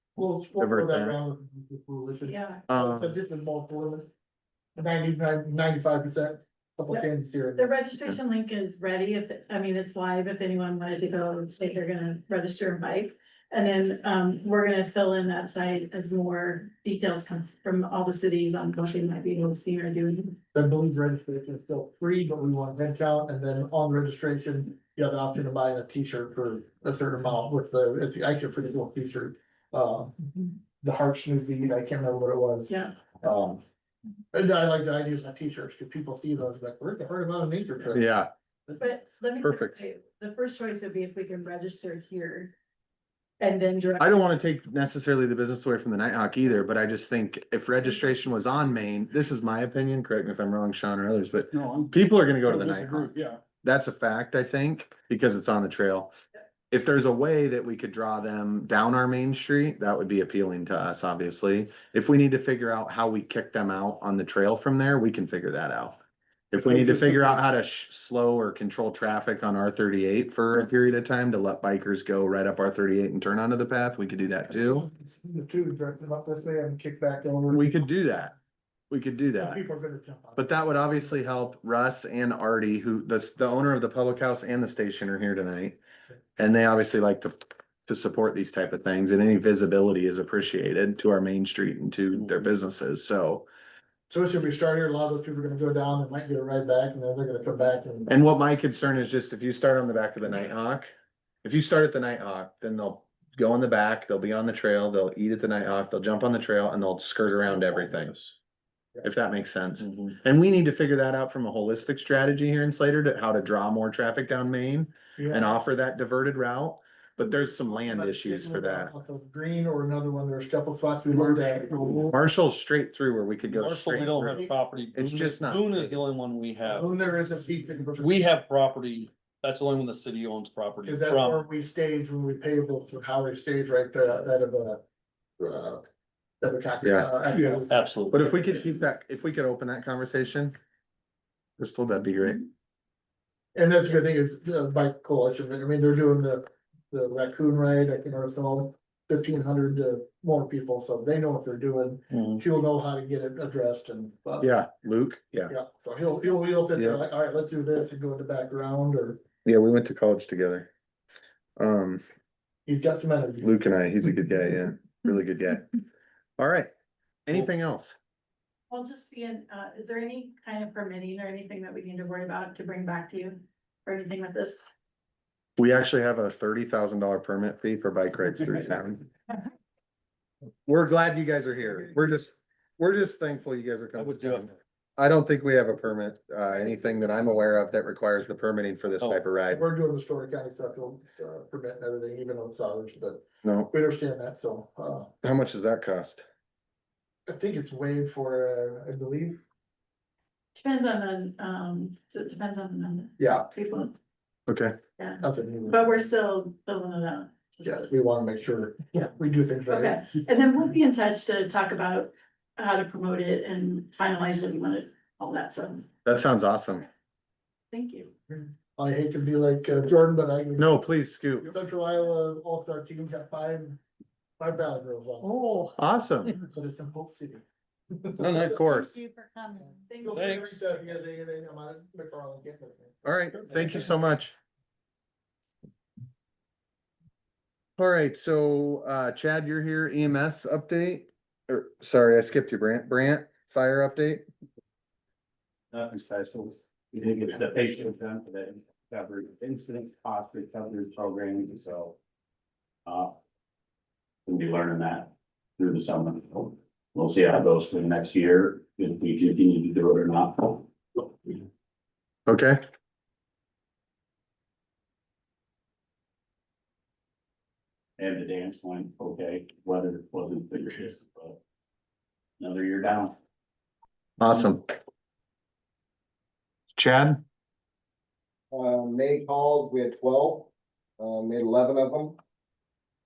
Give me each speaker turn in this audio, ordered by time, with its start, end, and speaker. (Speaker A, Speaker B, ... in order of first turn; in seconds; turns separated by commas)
Speaker A: 0.2-4.1, Speaker B: 0.6-1.2, Speaker C: 2.2-2.6, Speaker B: 2.7-3.1, Speaker A: 4.8-7.7, Speaker C: 6.9-20.4, Speaker A: 20.5-33.6, Speaker C: 32.7-32.9, Speaker A: 34.3-38.1, Speaker B: 37.9-38.3, Speaker C: 38.8-42.5, Speaker B: 39.4-39.8, Speaker C: 43.4-44.2, Speaker B: 44.0-56.1, Speaker D: 52.8-53.1, Speaker B: 56.7-66.0, Speaker B: 66.5-74.9, Speaker A: 66.6-67.4, Speaker A: 74.5-77.8, Speaker B: 77.5-78.3, Speaker B: 78.9-79.6, Speaker A: 79.4-80.9, Speaker B: 80.4-85.8, Speaker B: 86.4-93.5, Speaker A: 94.1-98.1, Speaker B: 98.1-100.9, Speaker B: 101.4-108.2, Speaker B: 109.0-118.9, Speaker A: 115.2-115.5, Speaker A: 117.7-122.1, Speaker B: 122.1-124.4, Speaker D: 123.5-126.9, Speaker B: 124.9-125.9, Speaker A: 126.7-128.3, Speaker D: 128.0-131.4, Speaker A: 130.8-134.8, Speaker A: 135.4-135.8, Speaker A: 136.4-137.8, Speaker B: 136.8-137.1, Speaker D: 137.4-138.3, Speaker B: 138.1-140.6, Speaker B: 141.6-142.4, Speaker A: 143.6-154.5, Speaker B: 154.4-155.5, Speaker A: 155.5-159.2, Speaker B: 156.8-157.0, Speaker B: 159.4-160.7, Speaker B: 161.6-162.0, Speaker A: 162.7-163.6, Speaker B: 163.4-165.7, Speaker B: 166.4-166.7, Speaker B: 167.3-168.0, Speaker C: 168.7-174.6, Speaker B: 175.6-179.1, Speaker B: 180.7-189.6, Speaker D: 184.0-184.5, Speaker A: 189.5-195.1, Speaker B: 193.4-193.7, Speaker B: 195.2-196.2, Speaker A: 197.3-199.4, Speaker C: 200.6-203.9, Speaker A: 203.2-203.5, Speaker B: 204.5-204.8, Speaker C: 205.0-207.9, Speaker A: 205.2-206.1, Speaker A: 207.6-210.1, Speaker C: 209.7-215.9, Speaker B: 216.1-216.9, Speaker C: 217.7-218.1, Speaker A: 218.3-220.8, Speaker B: 220.6-221.5, Speaker A: 221.4-223.8, Speaker A: 224.4-225.3, Speaker D: 225.2-225.7, Speaker B: 225.8-226.3, Speaker A: 226.4-228.6, Speaker B: 228.2-228.9, Speaker C: 228.4-230.4, Speaker A: 230.0-233.8, Speaker D: 230.1-230.6, Speaker B: 233.0-234.3, Speaker B: 237.8-244.2, Speaker E: 245.7-252.0, Speaker E: 252.8-253.2, Speaker E: 254.3-261.4, Speaker B: 262.3-262.6, Speaker E: 268.0-271.4, Speaker E: 272.4-273.2, Speaker B: 274.2-274.6, Speaker B: 276.8-277.2, Speaker F: 278.5-282.2